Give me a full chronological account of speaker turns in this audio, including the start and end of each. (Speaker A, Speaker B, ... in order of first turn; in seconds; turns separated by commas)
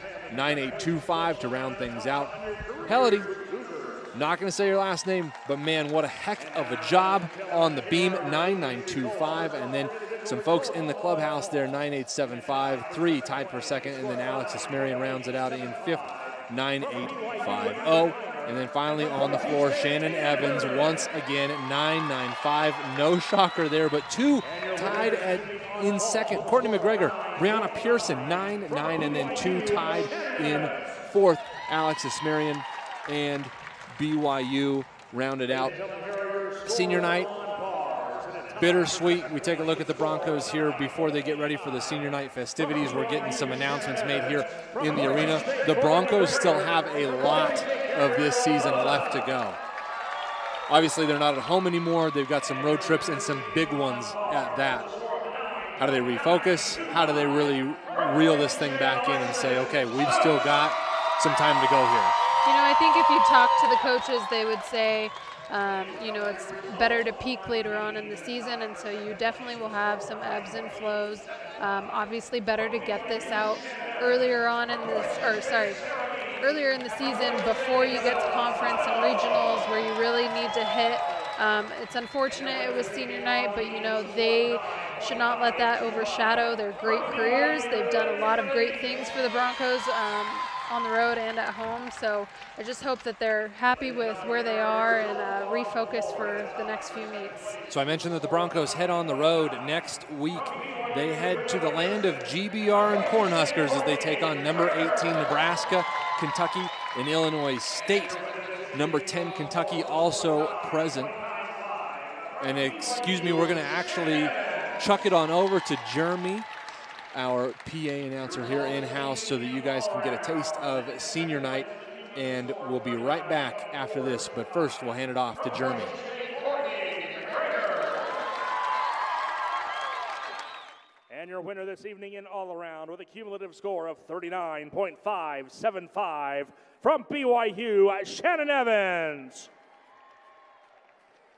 Speaker A: 0.3-3.3, Speaker A: 4.1-35.8, Speaker A: 36.6-37.3, Speaker B: 37.8-38.1, Speaker A: 38.6-49.6, Speaker A: 50.7-55.0, Speaker A: 55.8-62.1, Speaker C: 62.5-97.6, Speaker A: 97.7-108.2, Speaker A: 108.7-111.2, Speaker A: 112.4-116.5, Speaker A: 117.1-126.0, Speaker B: 131.1-139.5